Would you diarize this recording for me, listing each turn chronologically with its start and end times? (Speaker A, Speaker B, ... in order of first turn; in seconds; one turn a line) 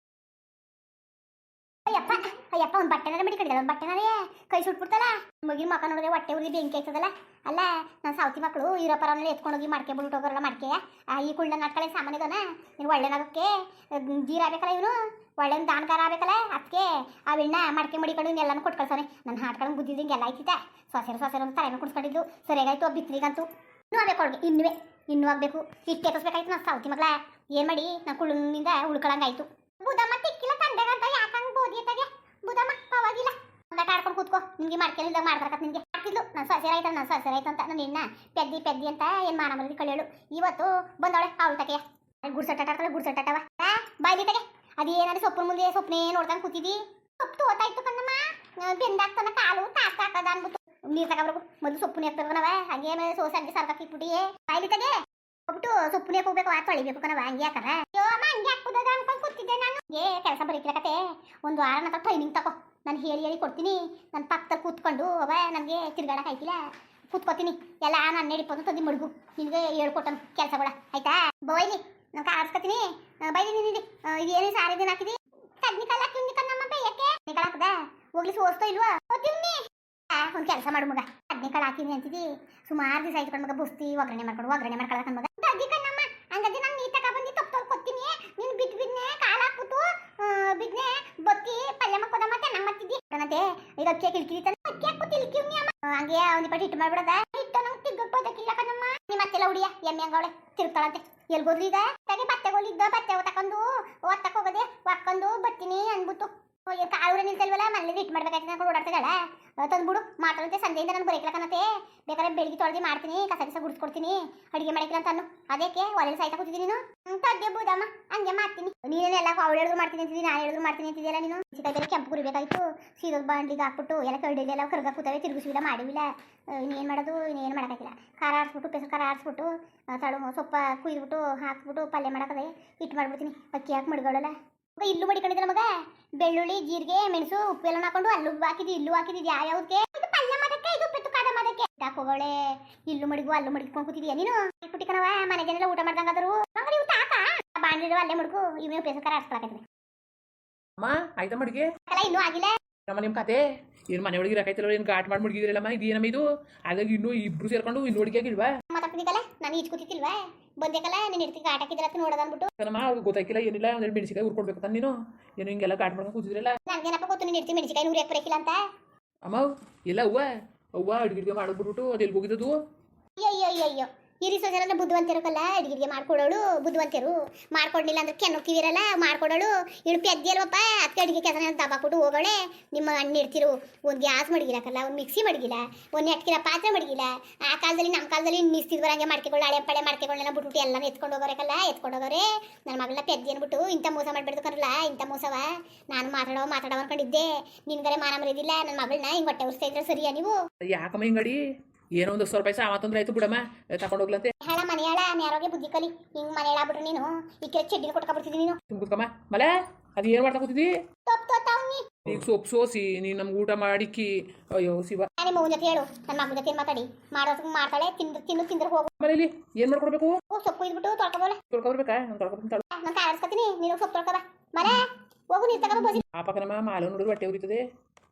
Speaker A: 1.9-149.6
Speaker B: 150.8-151.7
Speaker A: 151.9-152.5
Speaker B: 152.9-158.5
Speaker A: 158.7-162.5
Speaker B: 162.6-166.6
Speaker A: 166.7-168.6
Speaker B: 169.3-170.3
Speaker B: 170.8-172.6
Speaker A: 173.2-200.4
Speaker B: 200.6-201.4
Speaker B: 202.0-204.3
Speaker A: 204.4-208.6
Speaker B: 208.7-210.7
Speaker A: 211.1-211.9
Speaker B: 212.1-215.1
Speaker A: 215.2-218.9
Speaker B: 219.0-220.2
Speaker A: 220.3-221.4
Speaker B: 221.5-222.7
Speaker A: 222.7-226.0
Speaker B: 226.1-227.6